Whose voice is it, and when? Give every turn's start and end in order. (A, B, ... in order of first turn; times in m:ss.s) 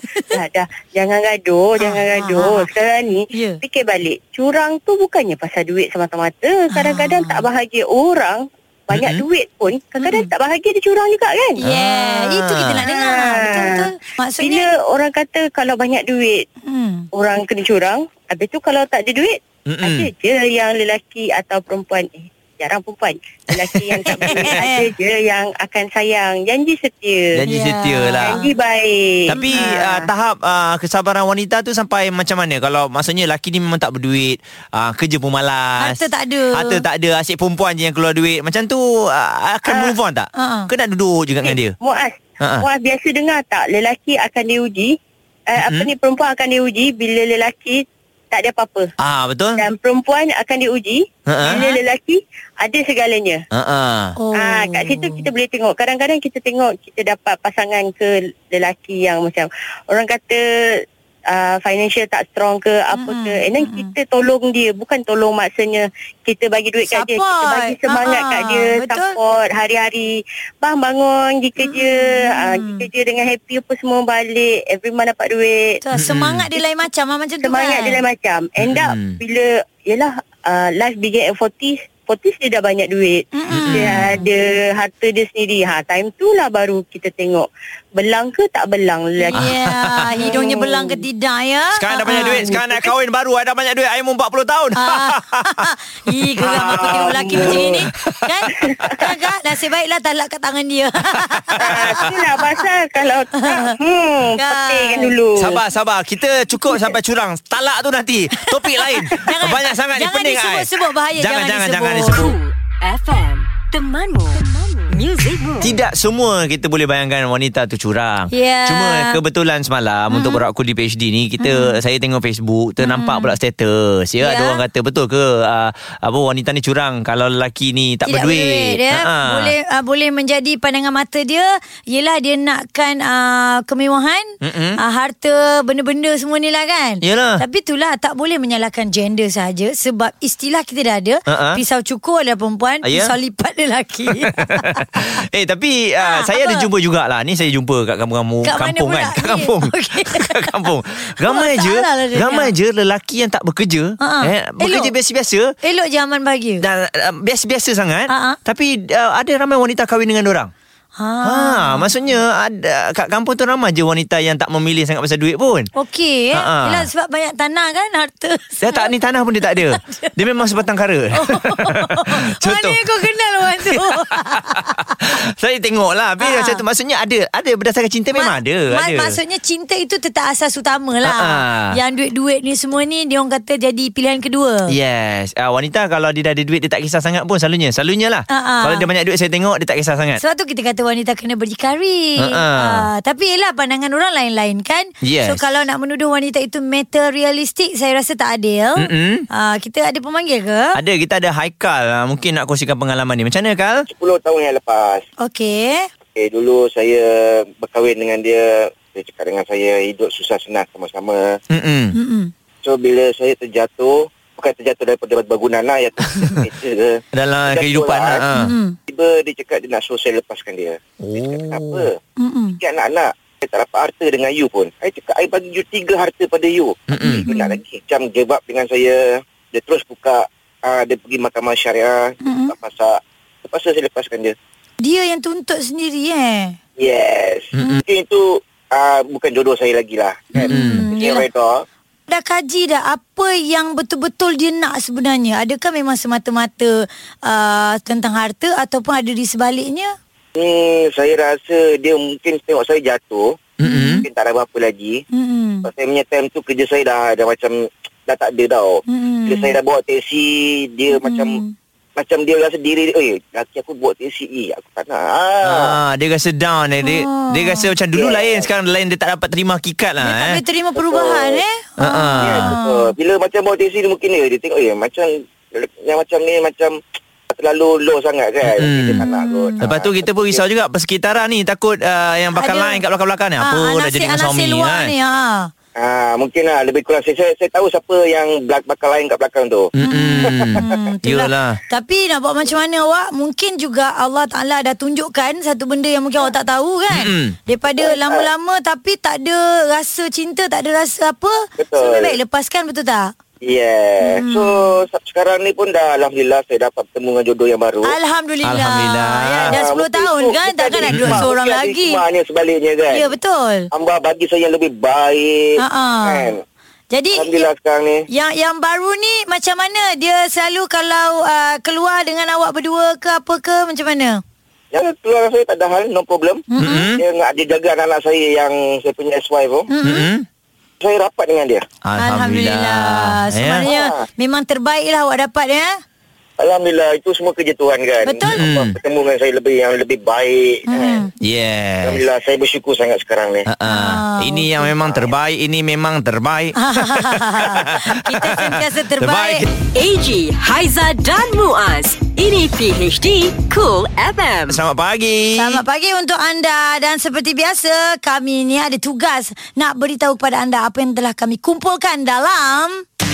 0:00.3-0:11.6 A
0:01.8-0:02.7 B
0:03.3-0:03.6 B
0:06.7-0:07.5 B
0:08.9-0:09.2 C
0:10.0-0:10.3 B
0:11.6-0:14.7 B
0:11.6-0:12.8 C
0:12.8-0:16.4 A
0:16.7-0:17.1 B
0:17.2-0:27.4 A
0:19.7-0:20.1 C
0:23.6-0:24.6 C
0:24.2-0:24.9 B
0:27.4-0:28.4 C
0:27.5-0:28.5 B
0:28.2-0:30.1 A
0:29.3-0:36.0 C
0:35.8-0:36.8 B
0:36.5-0:41.8 C
0:40.4-0:40.7 B
0:41.4-0:44.9 A
0:45.5-0:48.9 A
0:45.6-0:45.9 C
0:49.0-0:49.6 C
0:49.6-0:53.4 A
0:51.3-0:51.6 C
0:51.4-0:51.8 B
0:53.5-0:54.2 C
0:54.2-0:55.3 B
0:54.4-1:00.4 A
1:01.3-1:15.8 A
1:02.9-1:03.9 B
1:06.9-1:09.2 B
1:11.6-1:12.9 B
1:15.8-1:18.0 B
1:16.0-1:16.5 C
1:17.4-1:29.5 A
1:18.6-1:19.2 C
1:23.3-1:24.3 B
1:23.5-1:24.1 C
1:29.2-1:32.5 B
1:29.4-1:30.1 C
1:30.1-1:31.0 A
1:31.7-1:39.0 C
1:32.1-1:32.8 A
1:34.8-1:42.2 B
1:36.8-1:37.4 D
1:37.3-1:37.6 A
1:38.6-1:39.0 A
1:41.4-1:42.1 C
1:41.6-1:45.6 A
1:43.4-1:43.7 B
1:44.4-1:45.2 B
1:45.4-1:52.3 C
1:48.4-1:52.2 B
1:52.1-1:55.8 E
1:55.6-2:09.6 C
1:58.3-1:59.2 B
2:00.1-2:00.4 B
2:01.4-2:01.8 B
2:02.8-2:03.3 B
2:04.2-2:04.6 B
2:08.1-2:25.1 B
2:14.4-2:14.8 C
2:17.0-2:17.4 C
2:21.3-2:21.6 C
2:22.8-2:23.1 C
2:24.3-2:35.5 C
2:26.0-2:26.7 B
2:28.4-2:30.7 B
2:31.2-2:32.5 B
2:34.0-2:34.9 B
2:35.6-2:36.6 B
2:36.6-2:40.5 C
2:38.1-2:38.4 B
2:41.0-2:41.9 B
2:41.2-2:45.7 C
2:45.8-2:48.9 B
2:46.3-2:46.9 C
2:48.6-2:52.8 C
2:49.6-2:50.1 B
2:51.2-2:54.9 B
2:53.6-2:59.2 C
2:56.2-2:56.6 B
2:58.1-3:04.7 B
3:01.0-3:01.8 C
3:04.7-3:10.2 C
3:08.3-3:08.9 B
3:10.2-3:20.8 B
3:12.2-3:12.9 C
3:15.0-3:15.4 C
3:18.8-3:19.3 C
3:20.8-3:23.8 C
3:23.9-3:25.0 D
3:25.2-3:25.9 B
3:26.2-3:31.4 D
3:31.5-3:32.0 C
3:31.9-3:32.3 B
3:32.6-3:38.2 D
3:37.1-3:38.5 C
3:38.3-3:38.8 B
3:38.9-3:42.0 D
3:41.0-3:41.9 C
3:42.2-3:42.6 B
3:42.6-3:54.3 D
3:46.9-3:47.3 C
3:47.3-3:47.6 B
3:52.2-3:52.5 B
3:54.8-3:56.6 B
3:56.8-4:01.6 D
4:00.4-4:00.8 C
4:00.4-4:01.2 B
4:02.1-4:10.0 B
4:10.4-4:13.5 D
4:13.6-4:14.0 C
4:13.6-4:14.1 B
4:14.0-4:15.0 D
4:15.1-4:15.7 B
4:15.7-4:21.4 D
4:18.9-4:19.5 B
4:21.0-4:21.6 B
4:22.0-4:25.7 D
4:25.4-4:30.4 C
4:26.8-4:27.7 B
4:28.0-4:28.5 D
4:30.0-4:32.9 B
4:30.8-4:31.4 D
4:31.8-4:32.5 C
4:32.2-4:36.8 D
4:37.3-4:40.4 D
4:38.6-4:39.0 C
4:39.0-4:39.6 B
4:39.6-4:44.9 C
4:42.4-4:42.8 B
4:43.4-4:45.5 B
4:45.8-4:49.7 D
4:49.8-4:51.6 C
4:49.8-5:03.1 B
4:56.9-4:57.4 C
4:57.8-4:58.2 D
5:01.6-5:02.2 D
5:03.4-5:08.0 D
5:04.0-5:04.7 B
5:07.8-5:12.0 B
5:08.4-5:09.6 C
5:09.5-5:13.1 D
5:10.9-5:11.3 C
5:12.9-5:13.7 B
5:13.7-5:16.4 D
5:15.6-5:16.3 B
5:16.9-5:17.5 B
5:17.1-5:18.0 D
5:18.1-5:24.2 B
5:24.7-5:26.4 D
5:26.5-5:26.9 B
5:26.6-5:27.0 C
5:27.0-5:29.7 D
5:29.7-5:30.1 B
5:29.8-5:30.3 C
5:30.8-5:31.6 D
5:31.8-5:33.7 C
5:32.0-5:35.8 B
5:33.6-5:34.0 D
5:36.4-5:41.0 D
5:38.0-5:38.4 B
5:38.3-5:38.7 C
5:40.7-5:41.1 B
5:41.2-5:42.0 C
5:41.8-5:43.5 D
5:43.5-5:49.5 C
5:43.7-5:44.7 B
5:44.8-5:45.1 D
5:46.6-5:49.4 B
5:49.7-5:54.6 E
5:54.5-5:55.6 C
5:55.4-6:02.8 B